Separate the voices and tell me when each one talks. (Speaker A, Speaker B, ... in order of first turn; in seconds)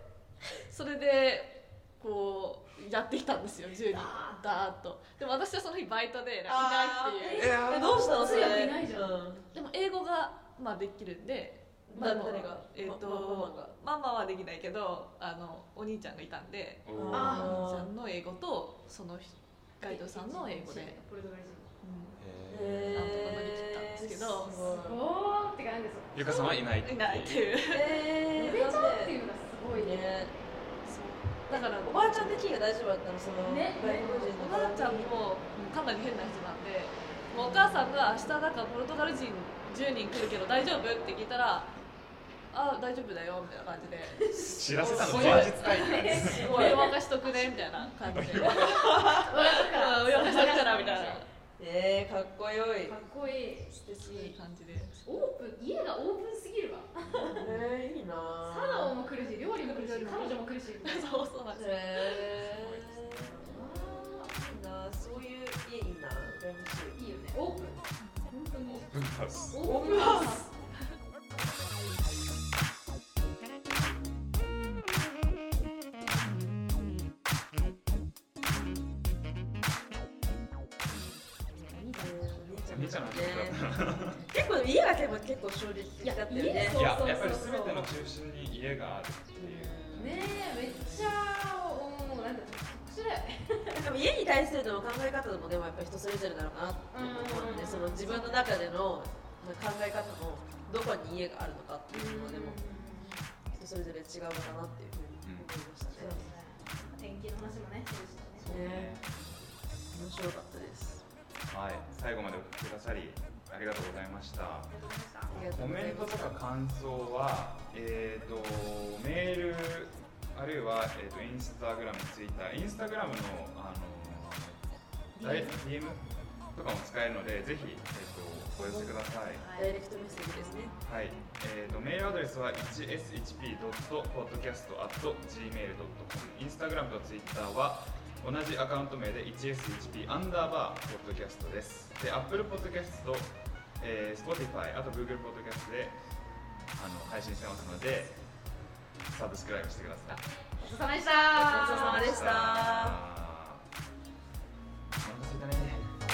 Speaker A: 0.6-7.6, 9.5-21.0, 21.8-22.2, 22.9-24.7, 26.2-28.1, 30.9-32.4, 33.8-41.7, 42.5-44.4, 44.9-51.3, 54.0-55.2, 59.5-62.3, 69.8-70.6
Speaker B: 3.9-4.4, 7.4-9.2, 17.1-17.6, 19.8-21.8, 24.6-26.5, 28.4-30.1, 33.4-34.3, 44.2-44.5, 45.7-46.3, 47.2-47.9, 48.5-51.1, 52.9-53.7, 55.0-57.5, 58.4-61.2, 63.4-64.3, 67.0-69.0, 69.5-70.5, 81.5-82.8, 84.1-84.6, 86.0-87.9, 90.0-93.8, 96.9-98.5, 101.9-103.3, 105.9-108.6, 114.7-115.3, 125.2-125.6, 129.3-129.7, 150.6-152.3
Speaker C: 6.5-9.5, 11.9-13.7, 16.9-17.9, 22.5-25.0, 27.6-29.2, 29.7-30.4, 31.5-35.1, 37.4-37.7, 44.7-47.0, 51.6-53.0, 53.7-54.3, 57.1-59.0, 61.5-67.0, 69.6-70.5, 82.0-83.6, 84.3-86.8, 89.4-91.2, 93.7-102.6, 103.5-106.3, 108.4-109.0, 109.9-111.0, 115.3-116.3, 128.6-128.9, 129.6-130.8, 151.4-153.0
Speaker D: 7.4-8.0, 16.9-17.4, 22.2-23.2, 26.1-27.5, 44.5-46.7, 48.1-49.0, 50.7-51.2, 62.5-63.3, 68.7-69.8, 82.7-84.2, 86.7-89.8, 105.2-105.5, 108.4-109.5, 111.5-114.7, 115.3-124.6, 125.2-126.0, 126.5-129.4, 130.8-146.0, 146.8-148.2, 149.1-150.3, 151.3-153.7, 155.0-156.1